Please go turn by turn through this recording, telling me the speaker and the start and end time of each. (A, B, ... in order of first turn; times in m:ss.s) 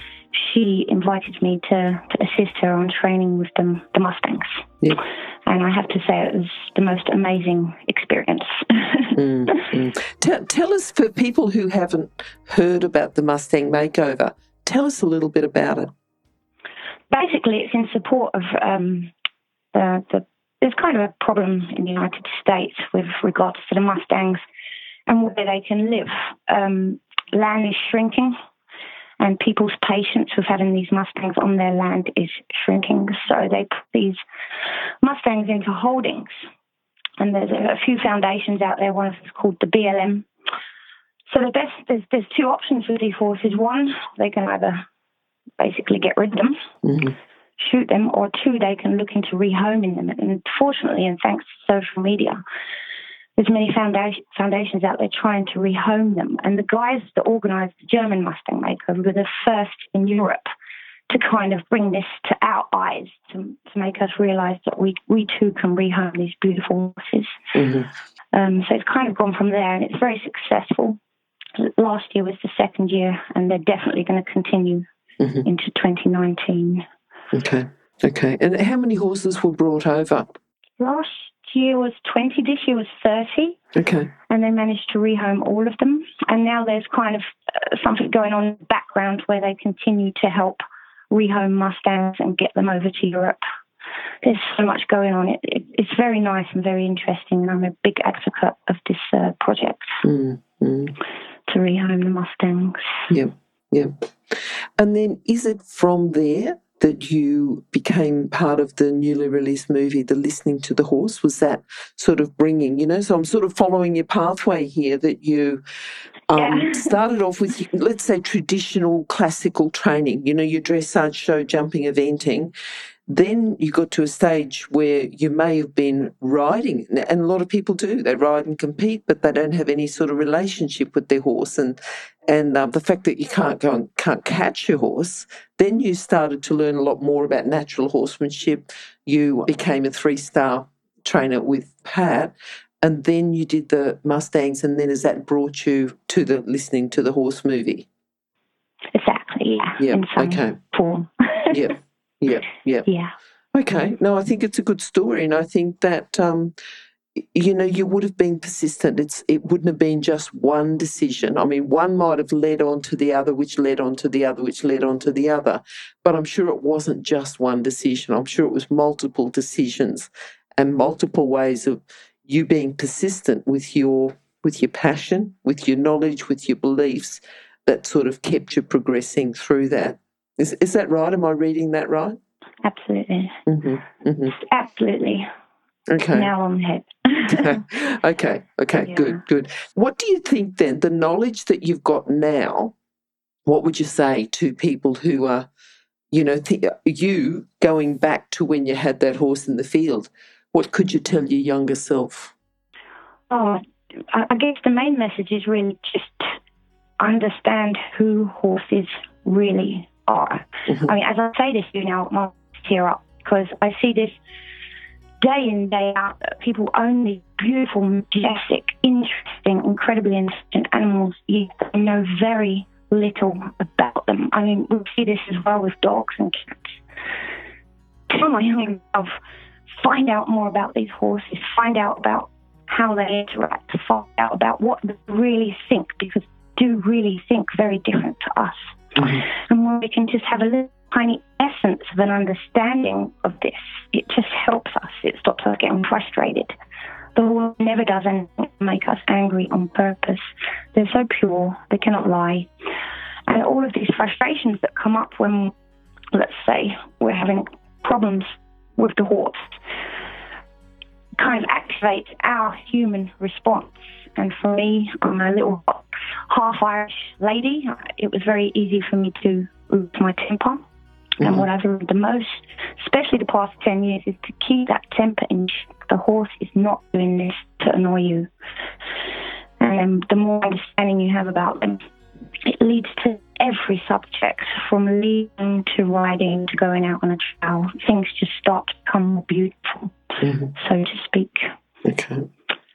0:00.3-0:04.5 A
0:05.4-0:09.2 A
0:09.2-0:15.9 B
0:17.1-0:19.1 A
0:19.7-0:24.4 A
0:25.1-0:28.3 A
0:29.2-0:34.2 A
0:35.0-0:36.3 A
0:37.2-0:40.3 A
0:41.3-0:44.8 A
0:45.6-0:46.6 A
0:46.8-0:47.1 B
0:47.6-0:52.4 A
0:53.4-1:00.5 A
1:01.1-1:07.4 A
1:07.5-1:07.9 B
1:08.3-1:11.0 A
1:11.6-1:14.9 A
1:15.2-1:15.4 B
1:15.4-1:16.8 A
1:17.3-1:20.4 B
1:20.8-1:23.6 A
1:23.7-1:24.1 B
1:24.3-1:33.4 A
1:34.2-1:40.0 A
1:40.0-1:41.0 B
1:41.5-1:43.0 A
1:43.1-1:55.6 B
1:56.3-2:02.5 B
1:56.3-1:57.0 A
2:03.1-2:27.9 B
2:28.9-2:31.6 A
2:29.8-2:30.6 B
2:31.5-2:32.9 B
2:32.8-2:33.1 A
2:33.5-2:36.5 B
2:37.1-3:02.2 B
3:02.6-3:03.4 A
3:03.5-3:04.3 B
3:04.4-3:05.3 A
3:05.9-3:06.3 B
3:06.1-3:07.6 A
3:07.3-3:12.7 B
3:08.7-3:09.2 A
3:13.4-3:15.5 B
3:16.1-3:22.3 B
3:23.3-3:26.3 A
3:27.0-3:34.1 A
3:35.2-3:46.8 A
3:48.1-3:49.1 A
3:49.7-4:06.5 A
3:59.0-3:59.2 B
4:07.1-4:12.5 A
4:13.3-4:15.5 A
4:16.1-4:19.6 A
4:21.2-4:30.6 A
4:31.2-4:38.3 A
4:31.2-4:31.5 B
4:39.6-4:41.9 A
4:42.4-4:50.0 A
4:50.2-4:50.5 B
4:50.5-4:51.5 A
4:51.8-4:52.3 B